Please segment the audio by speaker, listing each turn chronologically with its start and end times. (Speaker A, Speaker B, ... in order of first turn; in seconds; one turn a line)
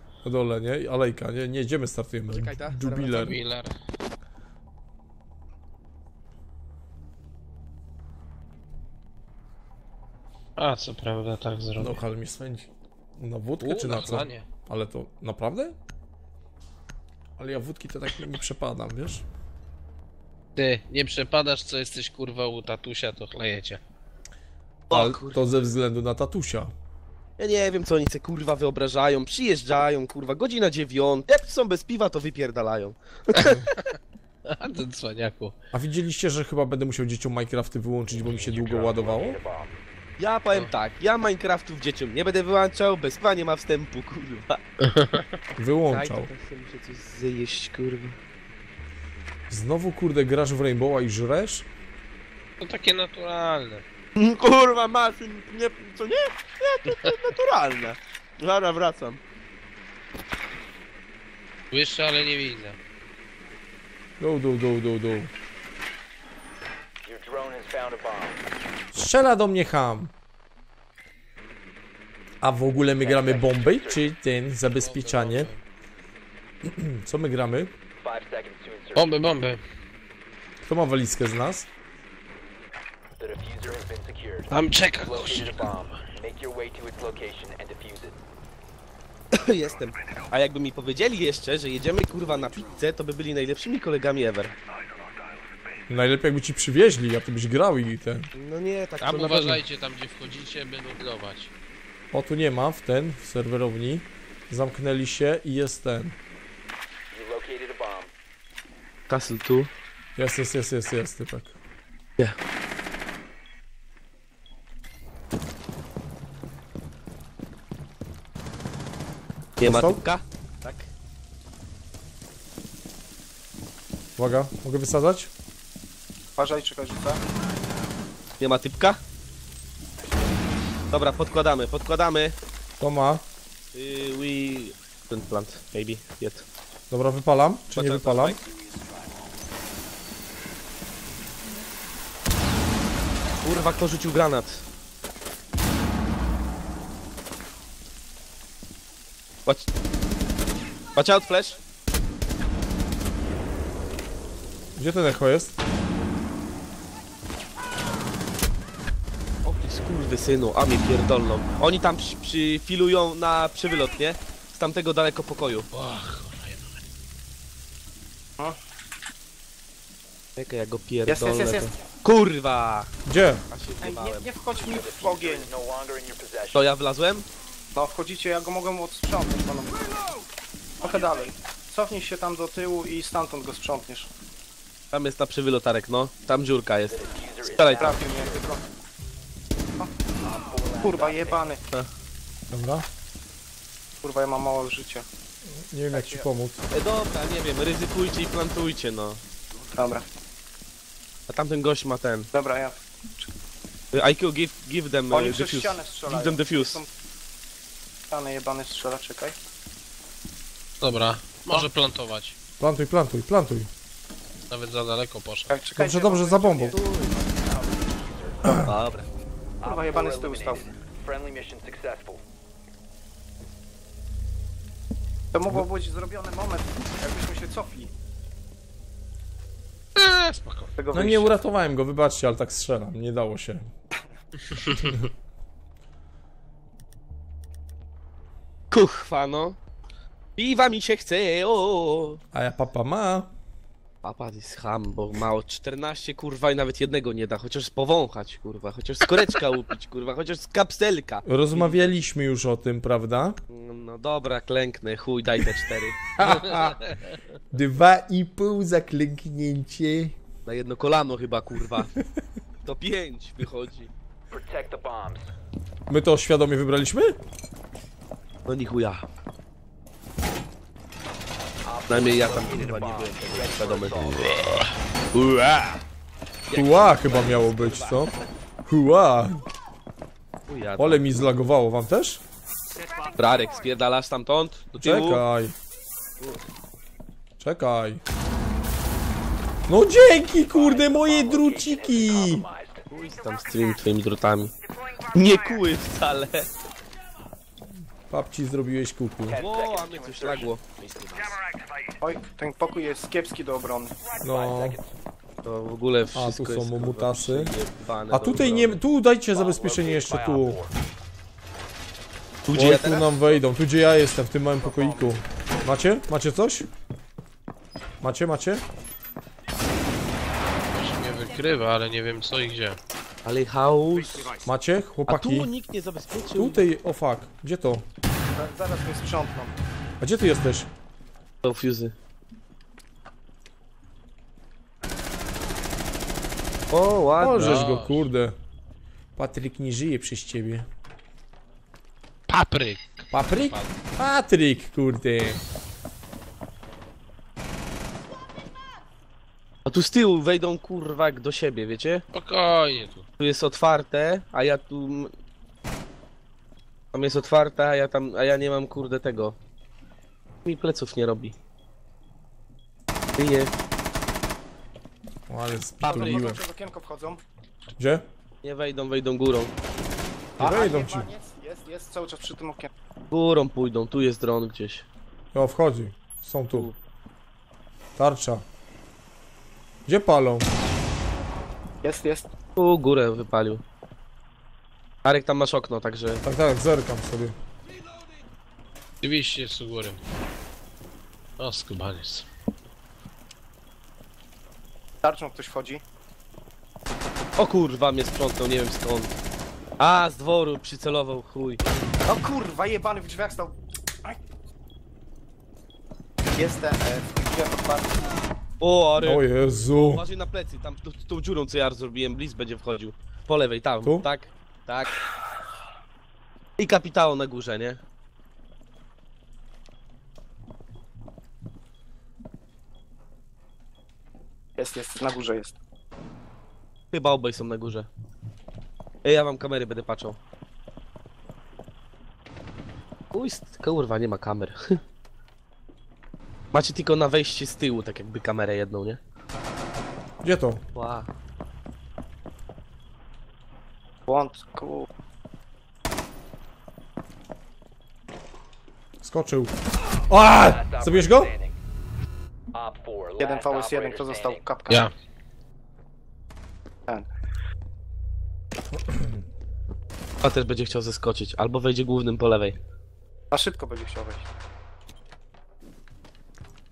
Speaker A: 0.2-3.4
Speaker B: 3.0-3.7
Speaker B: 10.6-12.0
Speaker A: 11.8-15.8
Speaker B: 13.6-14.5
Speaker A: 17.4-19.2
Speaker B: 20.6-23.8
Speaker C: 24.9-25.5
Speaker A: 24.9-26.7
Speaker C: 27.4-33.8
Speaker B: 33.4-34.0
Speaker B: 34.5-35.6
Speaker A: 35.7-39.4
Speaker D: 38.3-39.7
Speaker C: 40.2-44.6
Speaker B: 44.8-45.4
Speaker A: 45.6-46.3
Speaker C: 45.9-48.2
Speaker A: 49.5-51.7
Speaker B: 52.6-53.9
Speaker C: 54.2-59.2
Speaker B: 61.7-62.8
Speaker A: 64.2-65.3
Speaker D: 67.0-68.4
Speaker A: 68.9-70.1
Speaker A: 72.4-75.5
Speaker D: 73.0-74.1
Speaker B: 74.8-75.6
Speaker A: 76.6-77.7
Speaker D: 78.0-79.2
Speaker B: 79.0-79.6
Speaker A: 80.6-81.7
Speaker D: 83.2-88.2
Speaker B: 84.5-86.0
Speaker C: 89.3-94.5
Speaker A: 95.9-98.3
Speaker C: 98.3-99.6
Speaker B: 99.0-101.5
Speaker A: 102.1-106.2
Speaker D: 107.1-108.1
Speaker C: 109.1-109.7
Speaker A: 110.2-111.6
Speaker C: 119.6-120.9
Speaker A: 119.6-120.0
Speaker A: 124.2-125.3
Speaker E: 126.4-127.2
Speaker C: 128.4-129.0
Speaker C: 130.9-132.3
Speaker A: 132.8-133.2
Speaker C: 133.7-136.5
Speaker A: 136.9-138.4
Speaker C: 137.7-138.4
Speaker C: 143.4-144.6
Speaker C: 151.0-151.6
Speaker A: 154.8-155.6
Speaker C: 159.4-165.7
Speaker B: 165.7-166.8
Speaker C: 170.4-172.9
Speaker E: 171.1-171.7
Speaker A: 173.1-173.4
Speaker C: 173.5-174.3
Speaker E: 173.8-175.5
Speaker D: 174.6-176.7
Speaker C: 176.5-177.3
Speaker E: 177.8-179.9
Speaker E: 180.8-184.1
Speaker C: 184.9-188.0
Speaker D: 186.9-188.5
Speaker E: 187.8-188.6
Speaker D: 190.2-191.6
Speaker E: 190.8-191.6
Speaker A: 192.5-192.9
Speaker E: 194.0-195.1
Speaker A: 195.4-196.6
Speaker E: 195.9-196.2
Speaker C: 196.7-199.2
Speaker E: 199.8-200.1
Speaker C: 201.3-202.3
Speaker E: 202.3-203.3
Speaker C: 203.9-206.8
Speaker E: 205.1-206.9
Speaker E: 208.1-209.4
Speaker B: 210.8-212.4
Speaker A: 212.6-213.7
Speaker B: 214.5-215.5
Speaker E: 215.5-216.9
Speaker A: 215.8-216.8
Speaker C: 216.7-217.2
Speaker D: 217.3-218.5
Speaker C: 218.5-219.1
Speaker D: 219.6-222.2
Speaker E: 219.6-220.7
Speaker E: 225.3-227.9
Speaker B: 230.0-230.7
Speaker E: 230.8-231.3
Speaker A: 230.9-233.7
Speaker B: 234.5-235.0
Speaker C: 238.7-239.6
Speaker C: 240.4-242.2
Speaker A: 242.3-243.3
Speaker C: 244.0-251.9
Speaker A: 251.2-253.4
Speaker C: 253.5-256.2
Speaker A: 256.2-256.9
Speaker A: 257.5-260.2
Speaker C: 260.5-262.0
Speaker C: 262.6-263.9
Speaker D: 264.3-265.3
Speaker A: 265.9-267.2
Speaker C: 268.5-269.1
Speaker D: 271.6-274.5
Speaker C: 271.9-274.2
Speaker C: 275.1-275.8
Speaker C: 276.5-278.1
Speaker A: 276.5-279.5
Speaker C: 280.5-281.1
Speaker A: 280.8-282.2
Speaker C: 283.2-285.2
Speaker A: 284.8-285.6
Speaker A: 287.4-288.0
Speaker A: 289.7-292.5
Speaker D: 290.5-292.8
Speaker C: 292.9-294.5
Speaker C: 295.1-296.5
Speaker A: 298.1-299.4
Speaker D: 299.2-300.5
Speaker C: 299.4-301.4
Speaker E: 302.0-303.9
Speaker A: 304.2-304.8
Speaker D: 304.2-304.8
Speaker C: 305.4-308.8
Speaker A: 306.1-307.6
Speaker A: 308.1-310.6
Speaker D: 309.3-310.7
Speaker C: 312.4-313.4
Speaker A: 312.5-316.7
Speaker E: 314.6-315.2
Speaker A: 318.0-318.6
Speaker B: 320.7-322.8
Speaker C: 323.2-324.4
Speaker A: 324.4-325.5
Speaker C: 325.1-326.6
Speaker A: 326.3-327.9
Speaker E: 328.4-329.6
Speaker A: 330.0-330.7
Speaker C: 331.4-331.9
Speaker C: 336.7-337.6
Speaker A: 337.2-338.4
Speaker B: 337.4-338.1
Speaker A: 339.2-340.7
Speaker B: 342.3-343.8
Speaker A: 343.1-345.4
Speaker C: 349.7-352.0
Speaker B: 352.1-353.1
Speaker C: 353.2-355.1
Speaker C: 356.9-359.4
Speaker C: 360.4-361.4
Speaker C: 363.2-363.5
Speaker A: 365.3-366.4
Speaker C: 365.8-366.1
Speaker E: 365.8-367.2
Speaker A: 367.8-368.1
Speaker C: 368.4-369.5
Speaker A: 370.4-371.1
Speaker E: 370.4-372.7
Speaker C: 373.1-374.9
Speaker A: 375.3-376.7
Speaker C: 376.5-376.8
Speaker A: 378.0-378.4
Speaker A: 379.9-380.5
Speaker E: 381.8-382.3
Speaker C: 382.6-383.6
Speaker C: 385.0-386.2
Speaker A: 386.2-387.4
Speaker B: 389.0-390.0
Speaker B: 391.4-392.3
Speaker E: 395.0-395.8
Speaker C: 397.4-399.2
Speaker C: 399.8-401.6
Speaker E: 402.1-404.2
Speaker E: 406.4-408.0
Speaker C: 408.6-415.1
Speaker A: 409.0-410.0
Speaker C: 416.6-417.8
Speaker E: 424.6-425.6
Speaker C: 426.9-427.9
Speaker C: 429.0-430.2
Speaker C: 433.1-434.8
Speaker C: 436.5-439.0
Speaker A: 440.2-440.6
Speaker C: 440.8-441.1
Speaker E: 444.1-444.9
Speaker A: 449.0-449.6
Speaker A: 450.1-451.3
Speaker D: 450.4-451.6
Speaker D: 452.5-454.4
Speaker E: 453.2-454.9
Speaker A: 458.8-459.2
Speaker C: 460.2-462.6
Speaker E: 463.3-464.3